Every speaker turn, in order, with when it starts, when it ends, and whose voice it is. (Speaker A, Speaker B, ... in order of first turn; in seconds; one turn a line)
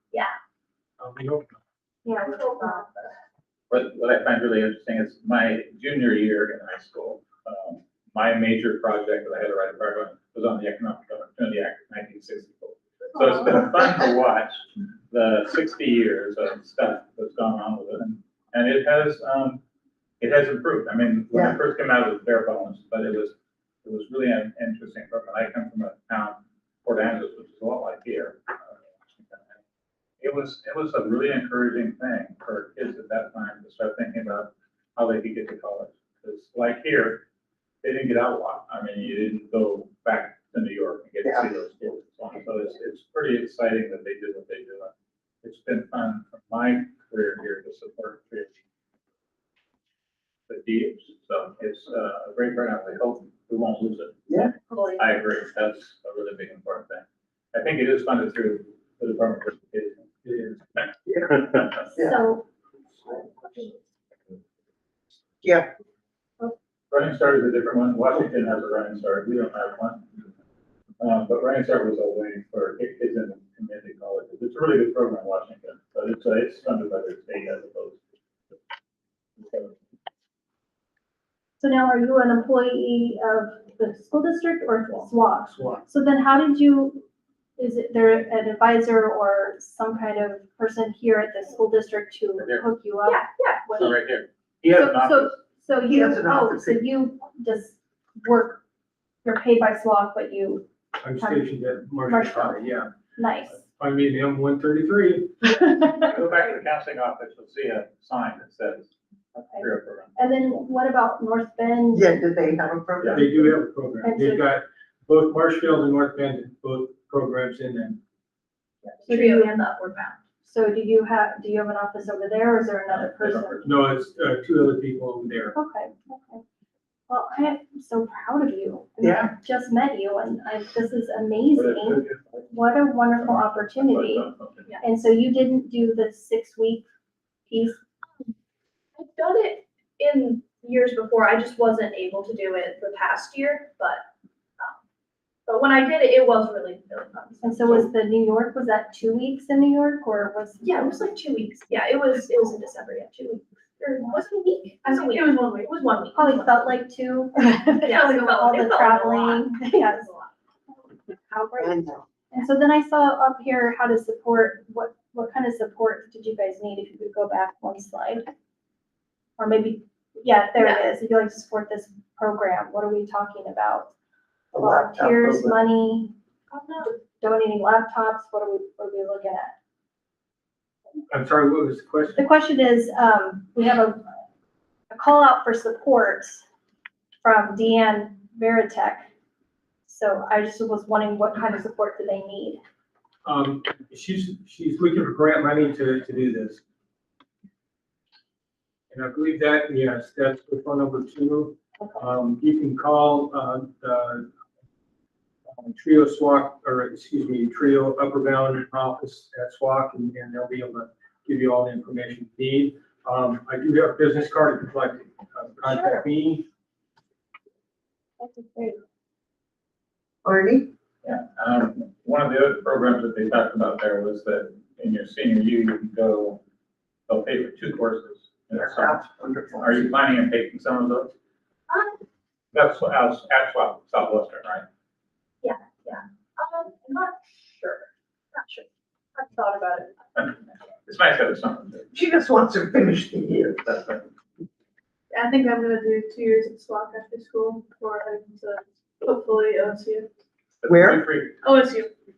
Speaker A: 1.0-1.6
Speaker B: 2.0-2.9
Speaker C: 2.2-3.1
Speaker D: 3.7-19.6
Speaker E: 13.3-13.7
Speaker D: 20.2-29.6
Speaker E: 21.3-21.6
Speaker D: 30.2-37.2
Speaker D: 37.8-44.9
Speaker E: 41.2-41.6
Speaker D: 45.4-48.5
Speaker D: 50.5-54.2
Speaker E: 54.3-54.5
Speaker B: 54.7-55.0
Speaker D: 55.0-60.1
Speaker A: 60.2-60.6
Speaker E: 61.1-62.3
Speaker B: 61.9-62.5
Speaker E: 65.4-65.7
Speaker D: 66.9-70.1
Speaker D: 71.0-78.0
Speaker D: 79.4-79.7
Speaker B: 81.6-87.0
Speaker A: 85.5-85.8
Speaker B: 87.6-94.0
Speaker D: 92.4-92.7
Speaker C: 93.1-93.9
Speaker D: 93.8-95.3
Speaker B: 94.7-98.6
Speaker E: 95.9-96.8
Speaker B: 99.2-101.5
Speaker A: 101.0-102.9
Speaker B: 102.1-103.6
Speaker A: 103.8-105.8
Speaker B: 105.6-106.1
Speaker D: 106.1-108.9
Speaker B: 109.3-112.2
Speaker D: 109.6-110.1
Speaker E: 111.9-113.6
Speaker A: 113.1-118.0
Speaker B: 114.0-114.5
Speaker C: 118.8-120.2
Speaker B: 119.1-119.5
Speaker B: 120.4-123.6
Speaker D: 122.9-123.8
Speaker A: 123.6-125.5
Speaker B: 125.5-126.4
Speaker B: 127.1-134.3
Speaker E: 129.0-129.3
Speaker D: 131.6-132.4
Speaker D: 133.2-134.8
Speaker B: 134.8-136.8
Speaker B: 137.5-137.8
Speaker C: 138.1-138.3
Speaker C: 139.0-144.1
Speaker C: 145.5-147.9
Speaker B: 147.4-150.9
Speaker C: 150.6-156.7
Speaker F: 154.8-155.8
Speaker B: 156.1-160.1
Speaker C: 157.8-160.3
Speaker B: 161.3-161.8
Speaker E: 161.6-162.0
Speaker B: 162.3-168.2
Speaker B: 169.4-173.9
Speaker C: 170.6-170.9
Speaker E: 174.5-175.6
Speaker B: 174.6-176.1
Speaker C: 176.5-176.9
Speaker B: 176.8-179.5
Speaker A: 181.1-182.2
Speaker B: 182.2-184.0
Speaker B: 184.9-186.4
Speaker B: 187.2-189.1
Speaker B: 189.9-192.6
Speaker A: 193.2-196.6
Speaker A: 198.9-204.3
Speaker A: 205.5-216.5
Speaker B: 215.7-216.0
Speaker B: 218.2-218.8
Speaker E: 220.2-220.7
Speaker D: 221.0-226.4
Speaker D: 227.1-229.0
Speaker E: 228.5-229.9
Speaker D: 229.6-231.1
Speaker C: 231.7-232.0
Speaker D: 232.5-234.7
Speaker C: 235.4-238.7
Speaker C: 239.2-239.9
Speaker D: 240.9-241.9
Speaker E: 241.9-243.8
Speaker D: 243.7-244.0
Speaker F: 245.1-250.1
Speaker D: 250.6-251.4
Speaker E: 250.7-251.0
Speaker F: 251.4-251.9